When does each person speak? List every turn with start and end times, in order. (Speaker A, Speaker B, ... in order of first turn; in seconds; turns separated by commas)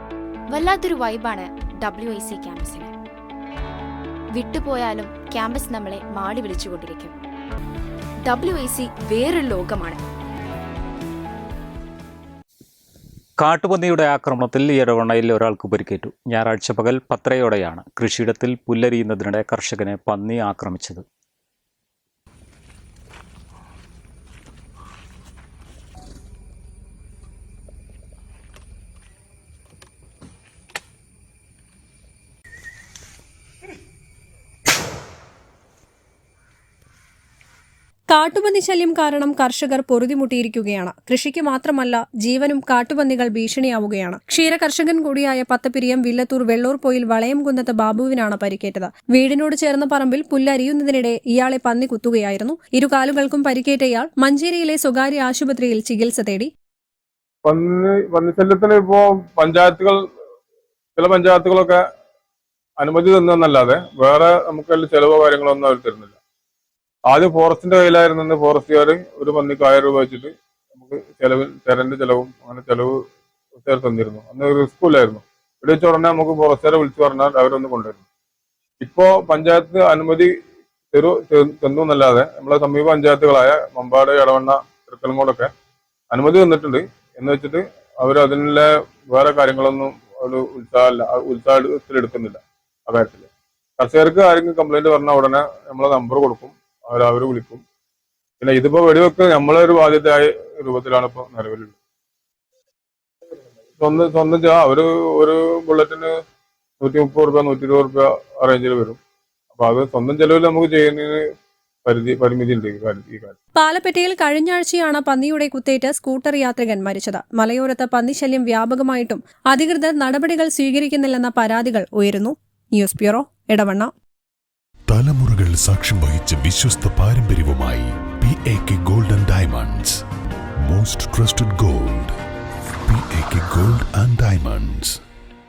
Speaker A: 0.5-2.9, Speaker A: 4.3-7.2, Speaker A: 8.2-10.0, Speaker B: 13.4-21.0, Speaker C: 38.1-56.5, Speaker D: 57.5-60.0, Speaker D: 61.0-61.8, Speaker D: 62.8-66.2, Speaker D: 67.1-73.0, Speaker D: 73.6-78.0, Speaker D: 78.8-80.3, Speaker D: 80.9-85.5, Speaker D: 86.1-93.3, Speaker D: 93.8-97.6, Speaker D: 98.4-101.7, Speaker D: 103.8-106.1, Speaker D: 106.8-109.0, Speaker D: 109.5-111.2, Speaker D: 111.8-113.3, Speaker C: 113.6-123.9, Speaker E: 124.9-130.0, Speaker E: 130.7-132.1, Speaker E: 132.9-135.0